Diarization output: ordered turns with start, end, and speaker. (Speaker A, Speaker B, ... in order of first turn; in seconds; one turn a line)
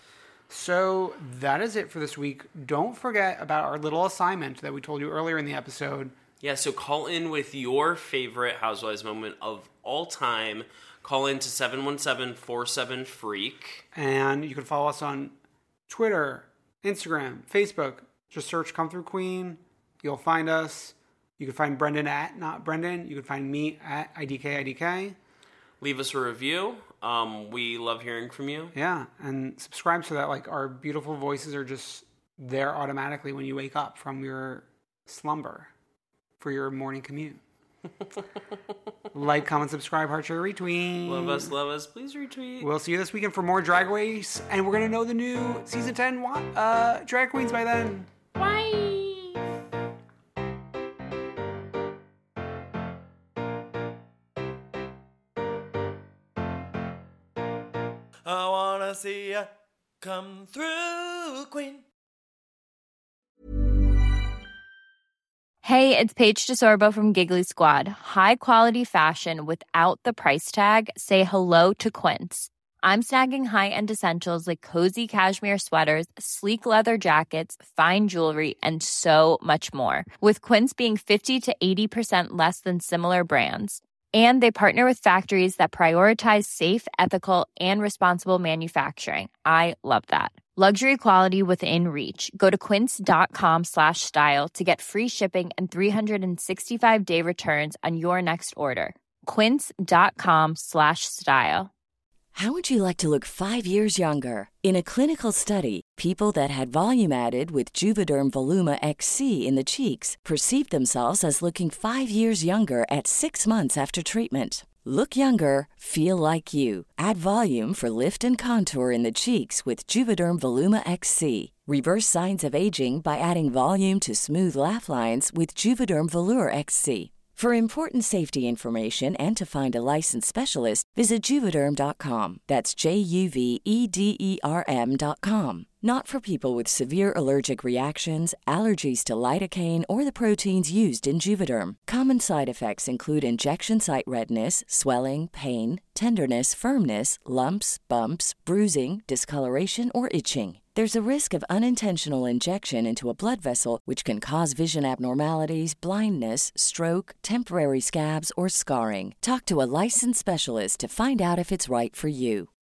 Speaker A: 0.5-6.1
Speaker B: 6.4-13.8
Speaker A: 13.9-15.3
Speaker A: 15.9-25.2
Speaker B: 25.8-28.7
Speaker A: 28.7-35.7
Speaker A: 36.4-37.4
Speaker A: 39.1-41.5
Speaker B: 41.0-42.7
Speaker A: 42.6-48.1
Speaker B: 48.4-49.0
Speaker C: 58.3-59.5
Speaker C: 60.0-61.9
Speaker D: 65.6-101.7
Speaker E: 102.3-162.5